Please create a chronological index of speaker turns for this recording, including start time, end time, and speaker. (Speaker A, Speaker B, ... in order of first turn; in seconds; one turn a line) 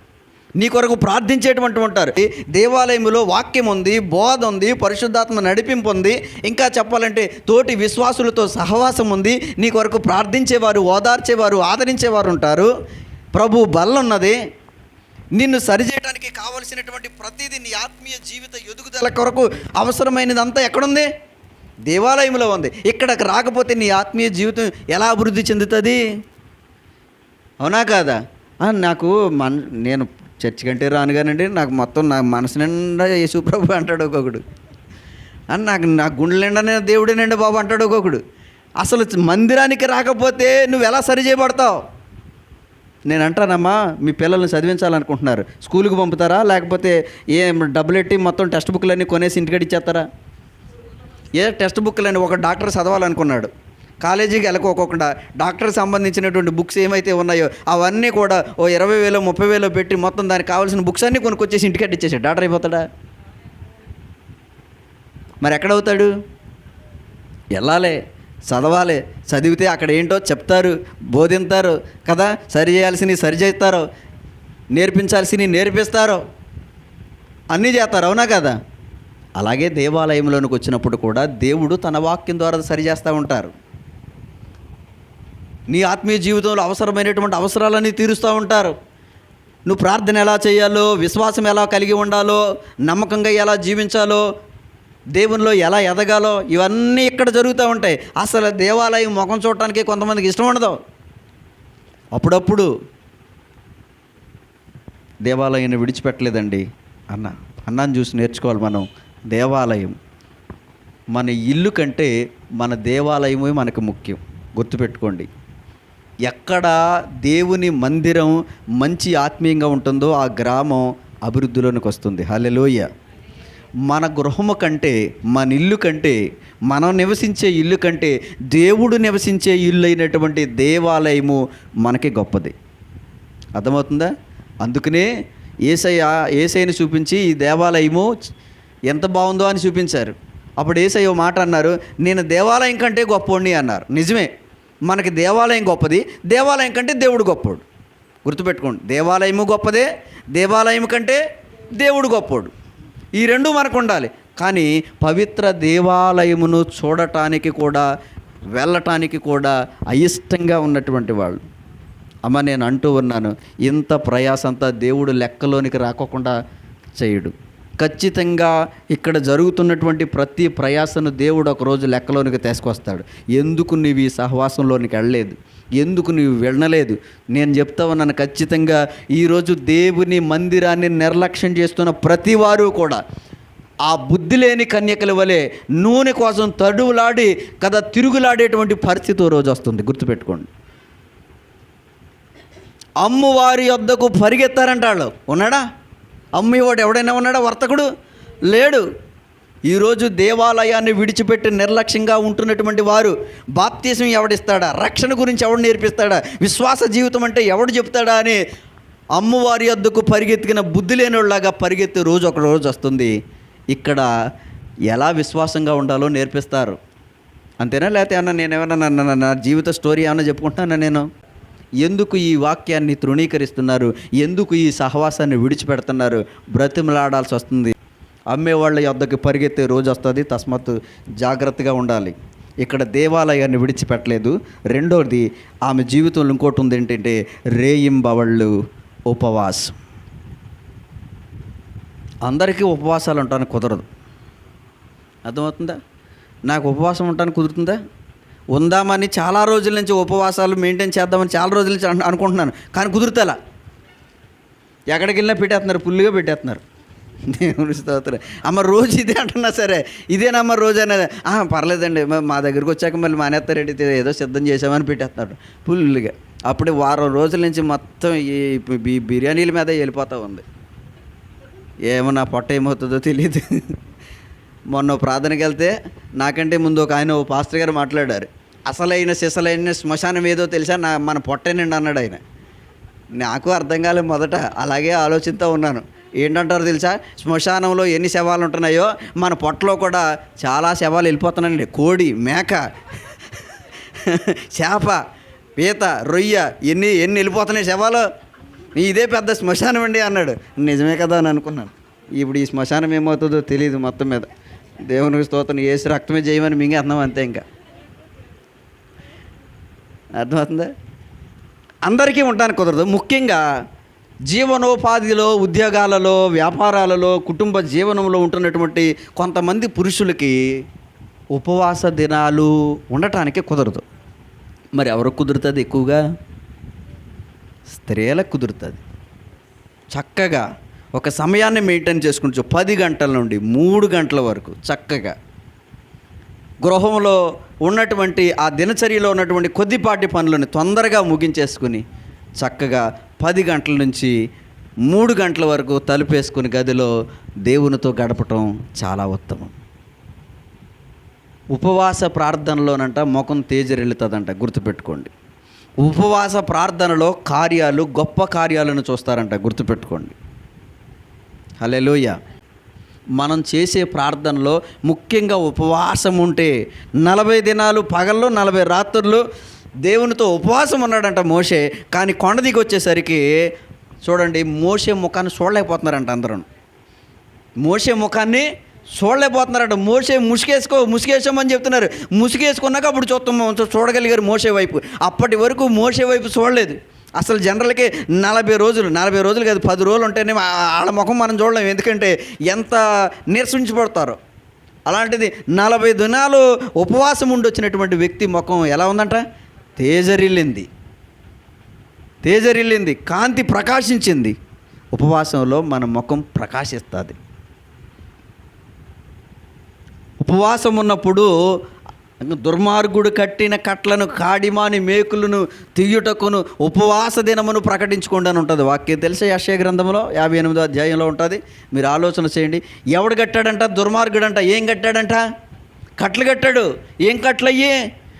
Speaker A: 0.6-12.7
Speaker A: 13.3-14.4
Speaker A: 15.3-21.1
Speaker A: 21.9-26.0
Speaker A: 27.6-34.4
Speaker A: 35.5-38.2
Speaker A: 38.8-41.8
Speaker A: 43.1-50.1
Speaker A: 51.4-53.5
Speaker A: 54.0-62.9
Speaker A: 65.4-66.1
Speaker A: 67.5-73.8
Speaker A: 74.7-76.2
Speaker A: 77.5-78.6
Speaker A: 79.4-83.5
Speaker A: 85.7-88.8
Speaker A: 89.7-94.2
Speaker A: 95.2-100.8
Speaker A: 102.1-102.7
Speaker A: 105.2-110.0
Speaker A: 111.1-115.3
Speaker A: 116.2-122.9
Speaker A: 123.9-132.5
Speaker A: 133.6-135.1
Speaker A: 135.7-138.1
Speaker A: 138.9-144.3
Speaker A: 144.9-147.6
Speaker A: 148.2-151.2
Speaker A: 151.8-152.5
Speaker A: 153.2-157.9
Speaker A: 158.6-161.4
Speaker A: 162.2-166.3
Speaker A: 167.0-183.0
Speaker A: 183.8-190.5
Speaker A: 193.0-195.7
Speaker A: 196.3-197.9
Speaker A: 198.5-198.8
Speaker A: 199.7-208.4
Speaker A: 209.2-213.1
Speaker A: 213.7-214.1
Speaker A: 214.9-216.8
Speaker A: 217.6-221.1
Speaker A: 221.8-227.7
Speaker A: 228.3-238.5
Speaker A: 239.1-239.8
Speaker A: 242.2-243.9
Speaker A: 245.2-245.8
Speaker A: 246.5-247.8
Speaker A: 248.5-253.4
Speaker A: 254.9-256.6
Speaker A: 257.2-270.4
Speaker A: 271.9-273.8
Speaker A: 274.7-282.2
Speaker A: 283.2-292.6
Speaker A: 293.9-295.0
Speaker A: 295.6-298.1
Speaker A: 298.7-304.3
Speaker A: 304.8-307.4
Speaker A: 310.1-310.7
Speaker A: 311.9-313.4
Speaker A: 314.3-320.4
Speaker A: 321.3-323.8
Speaker A: 324.8-326.0
Speaker A: 327.7-328.8
Speaker A: 329.9-335.1
Speaker A: 336.6-341.8
Speaker A: 342.4-344.1
Speaker A: 344.9-346.9
Speaker A: 347.5-349.5
Speaker A: 351.5-355.1
Speaker A: 355.8-360.1
Speaker A: 361.6-362.2
Speaker A: 363.2-369.2
Speaker A: 369.8-373.5
Speaker A: 374.0-376.4
Speaker A: 377.6-394.2
Speaker A: 394.9-399.2
Speaker A: 399.8-400.7
Speaker A: 402.2-404.4
Speaker A: 404.9-407.2
Speaker A: 410.2-411.3
Speaker A: 412.2-425.2
Speaker A: 426.0-427.8